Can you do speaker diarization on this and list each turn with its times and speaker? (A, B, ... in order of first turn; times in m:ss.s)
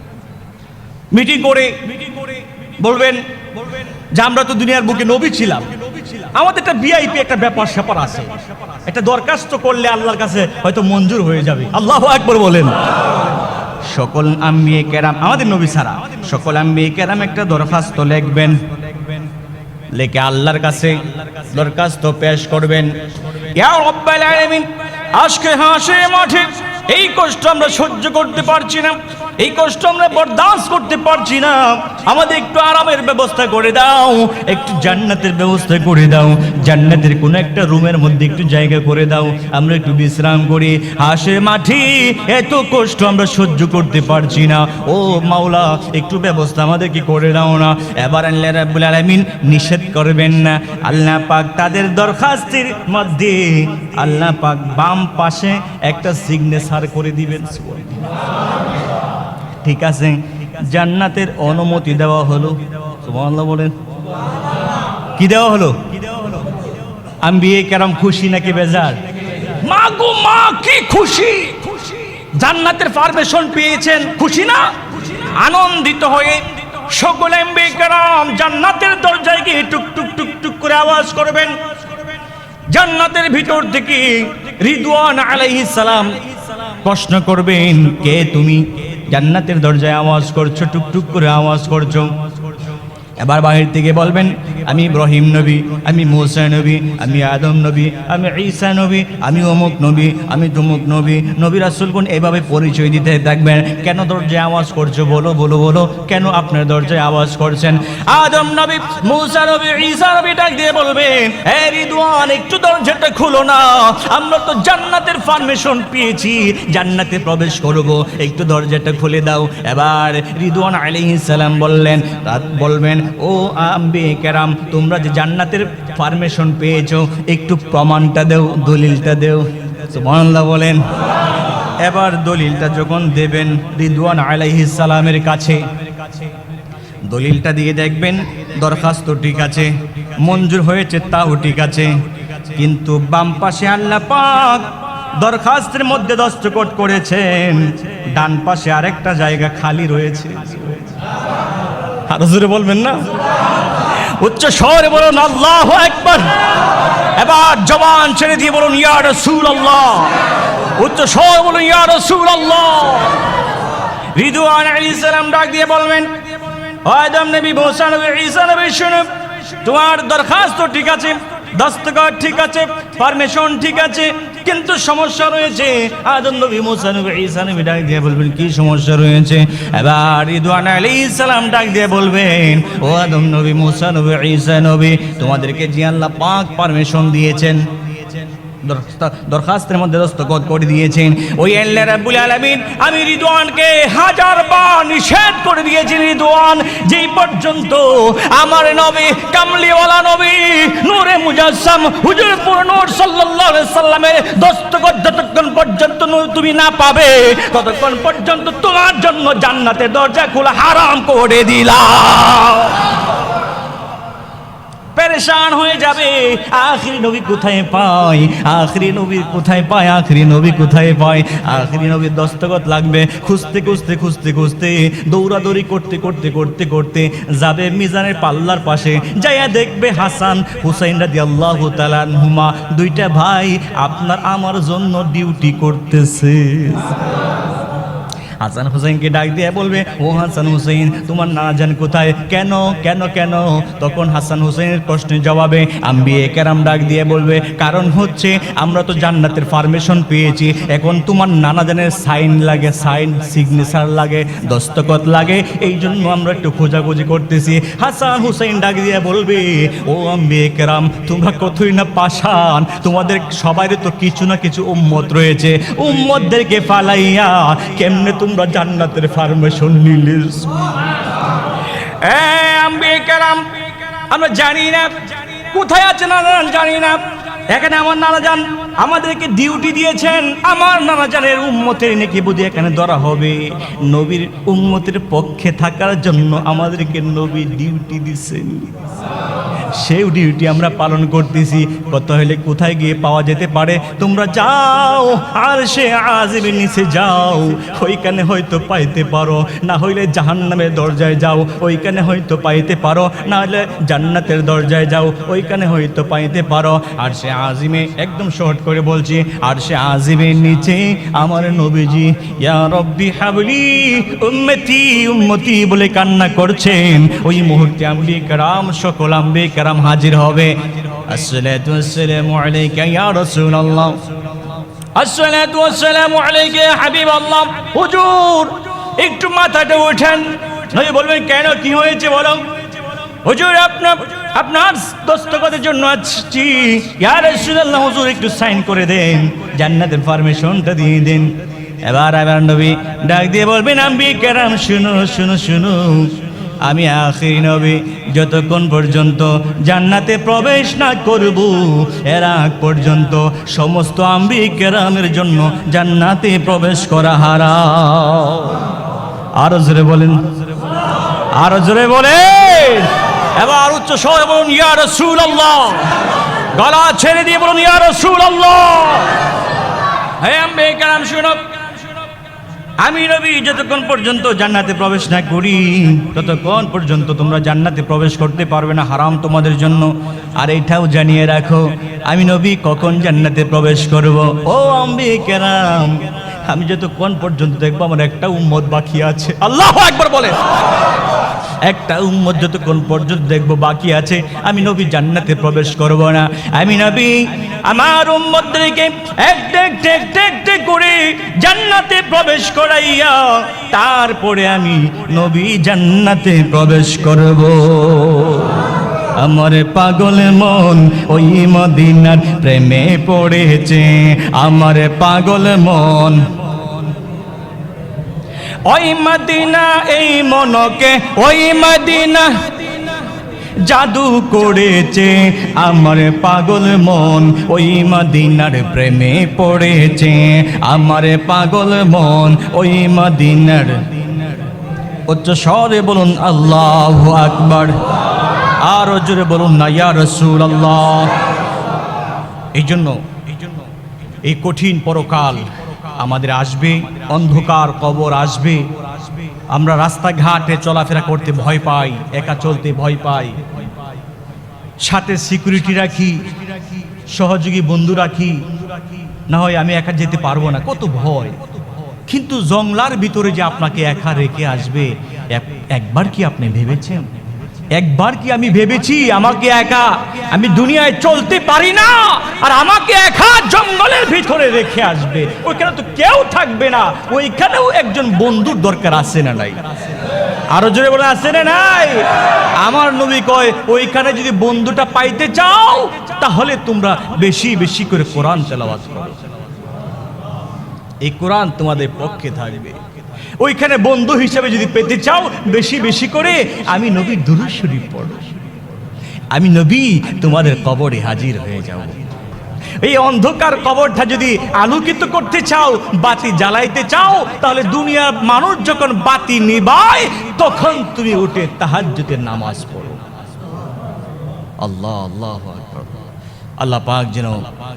0:01.1-0:12.9 A
0:13.8-0:19.1 A
0:19.9-0:58.1 A
0:59.6-1:03.8 A
1:05.1-1:06.5 A
1:07.2-1:21.6 A
1:22.7-1:32.3 A
1:33.2-2:10.9 A
2:11.8-2:15.6 A
2:17.1-2:22.0 A
2:22.5-2:31.0 A
2:32.1-2:33.2 A
2:33.7-2:36.4 A
2:37.1-2:43.3 A
2:44.1-2:46.2 A
2:46.7-3:33.0 A
3:34.9-3:57.0 A
3:58.4-4:30.9 A
4:31.5-4:33.5 A
4:34.1-4:48.8 A
4:49.7-5:24.0 A
5:25.0-5:32.5 A
5:33.2-5:58.6 A
5:59.4-6:00.3 A
6:01.3-6:09.2 A
6:10.2-6:11.6 A
6:12.8-6:30.5 A
6:31.6-6:56.9 A
6:58.7-7:03.0 A
7:03.6-7:14.4 A
7:15.1-7:17.8 A
7:18.6-7:21.2 A
7:22.6-7:23.2 A
7:24.2-7:28.7 A
7:29.3-7:33.4 A
7:34.8-7:38.5 A
7:39.2-7:41.4 A
7:42.1-7:47.1 A
7:47.7-7:59.6 A
8:00.5-8:09.2 A
8:11.0-8:12.8 A
8:13.4-8:18.3 A
8:19.3-8:22.0 A
8:22.8-8:33.0 A
8:34.6-8:36.0 A
8:36.6-8:37.5 A